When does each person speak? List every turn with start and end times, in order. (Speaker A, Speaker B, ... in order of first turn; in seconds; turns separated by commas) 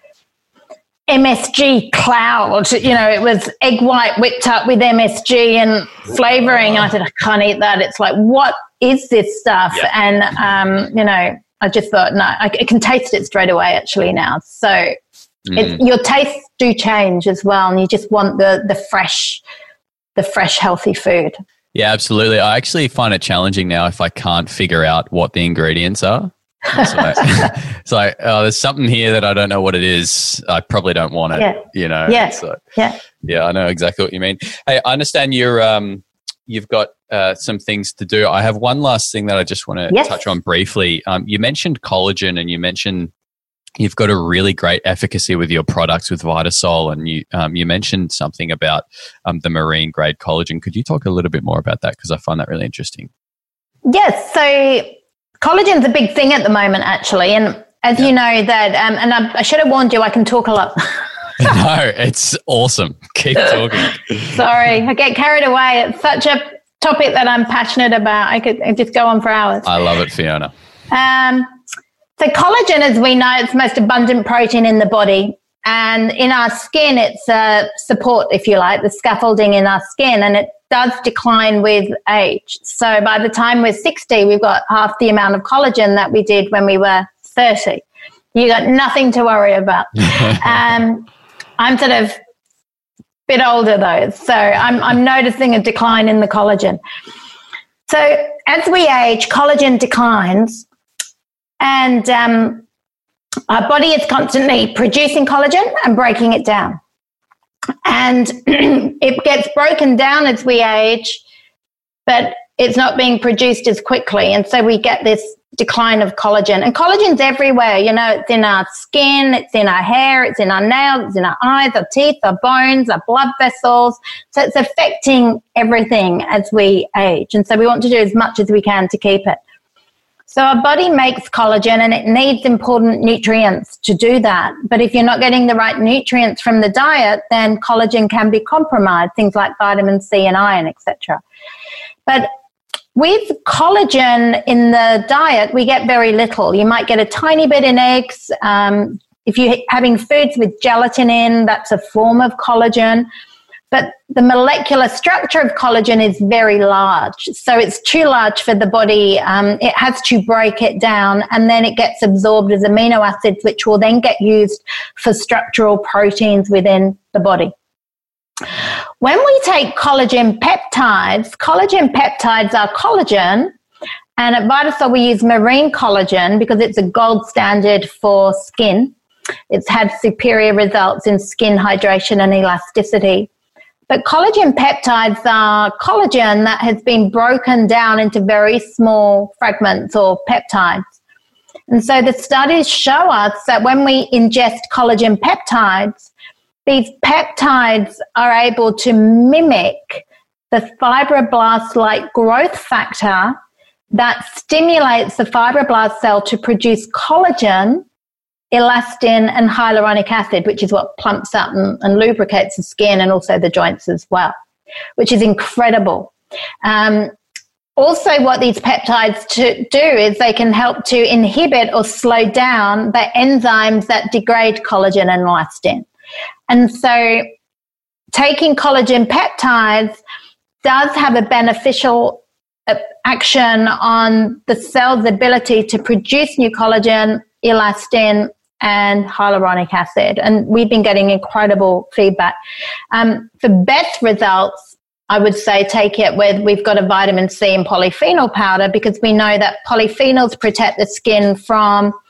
Speaker A: 1.1-14.9, Speaker B: 15.5-15.8, Speaker A: 15.5-19.4, Speaker A: 20.2-21.4, Speaker B: 21.7-32.6, Speaker A: 26.8-27.5, Speaker A: 31.4-33.0, Speaker B: 33.2-43.1, Speaker A: 39.9-40.2, Speaker B: 43.8-53.1, Speaker A: 53.9-61.0, Speaker B: 61.4-64.4, Speaker A: 64.3-69.7, Speaker B: 69.6-70.5, Speaker A: 70.9-71.5, Speaker A: 72.2-91.1, Speaker A: 91.6-92.2, Speaker A: 93.3-96.8, Speaker A: 97.9-100.6, Speaker A: 101.6-102.6, Speaker A: 103.5-106.8, Speaker A: 107.8-111.2, Speaker A: 112.1-129.4, Speaker A: 130.3-141.2, Speaker A: 142.9-153.1, Speaker A: 153.7-167.5, Speaker A: 169.0-173.5, Speaker A: 174.2-178.9, Speaker A: 179.5-183.3, Speaker A: 183.9-190.8, Speaker A: 191.7-196.1, Speaker A: 196.7-203.4, Speaker A: 203.9-207.8, Speaker A: 208.5-214.3, Speaker A: 215.0-216.1, Speaker A: 216.6-217.1, Speaker A: 217.8-225.9, Speaker A: 226.5-227.3, Speaker A: 228.1-230.0, Speaker A: 230.6-242.3, Speaker A: 242.9-251.9